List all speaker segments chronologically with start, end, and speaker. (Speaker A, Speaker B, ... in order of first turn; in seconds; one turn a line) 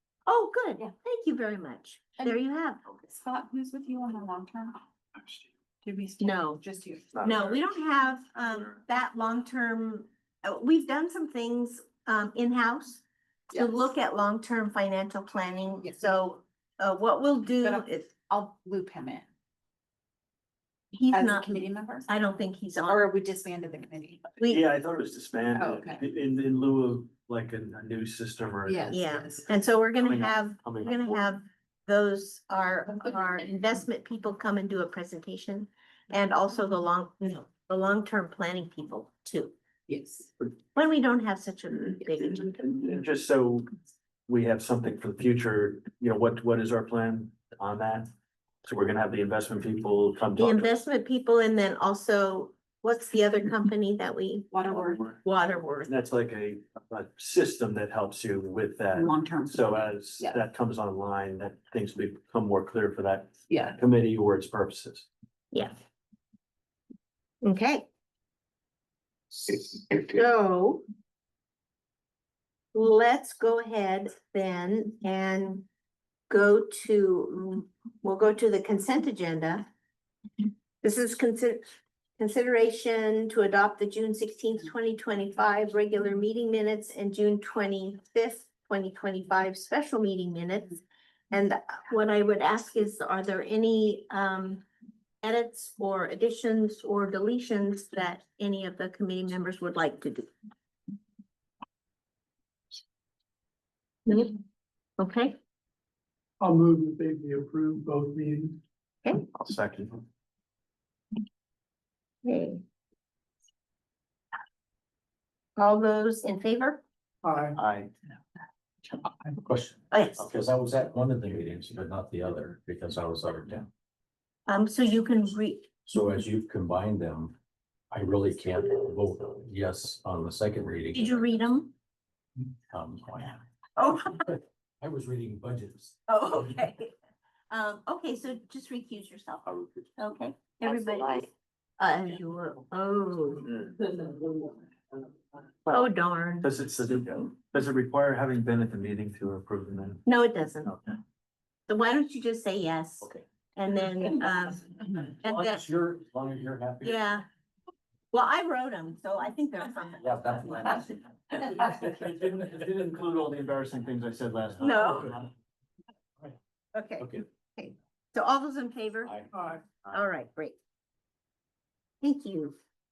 Speaker A: 0.3-2.8
Speaker B: 2.9-4.8
Speaker B: 5.8-7.2
Speaker A: 6.2-6.6
Speaker C: 7.2-7.6
Speaker A: 7.2-18.1
Speaker B: 17.6-19.3
Speaker A: 20.9-23.1
Speaker B: 21.1-22.1
Speaker B: 22.9-24.3
Speaker C: 24.4-28.9
Speaker B: 25.6-26.0
Speaker B: 28.7-29.4
Speaker A: 28.9-39.5
Speaker C: 30.0-31.1
Speaker B: 39.9-40.3
Speaker A: 40.8-42.5
Speaker C: 42.6-43.7
Speaker C: 44.3-48.1
Speaker C: 48.6-50.7
Speaker A: 50.4-55.9
Speaker B: 54.5-55.0
Speaker C: 55.9-65.1
Speaker B: 59.0-60.5
Speaker B: 63.5-63.8
Speaker A: 67.4-67.9
Speaker A: 70.1-70.8
Speaker A: 72.7-75.7
Speaker A: 76.3-79.7
Speaker A: 80.8-81.6
Speaker A: 82.2-94.6
Speaker A: 95.2-100.3
Speaker A: 104.1-104.4
Speaker A: 105.0-105.4
Speaker D: 106.4-108.6
Speaker C: 109.3-110.0
Speaker A: 112.2-112.6
Speaker A: 115.6-116.8
Speaker C: 117.6-117.9
Speaker E: 118.9-123.7
Speaker A: 119.9-120.2
Speaker A: 124.5-125.7
Speaker E: 125.9-127.3
Speaker E: 127.9-131.3
Speaker A: 130.9-131.7
Speaker E: 132.7-133.4
Speaker A: 133.8-134.3
Speaker E: 134.3-136.0
Speaker A: 136.1-136.9
Speaker A: 137.5-143.5
Speaker A: 145.7-146.5
Speaker C: 146.4-150.0
Speaker A: 150.1-150.8
Speaker A: 151.7-155.7
Speaker E: 155.2-157.0
Speaker A: 156.8-157.2
Speaker A: 158.1-161.0
Speaker E: 160.0-160.9
Speaker C: 161.7-165.2
Speaker A: 164.6-165.2
Speaker A: 166.7-169.2
Speaker E: 167.0-167.3
Speaker E: 169.0-170.0
Speaker A: 169.9-170.6
Speaker A: 172.0-172.6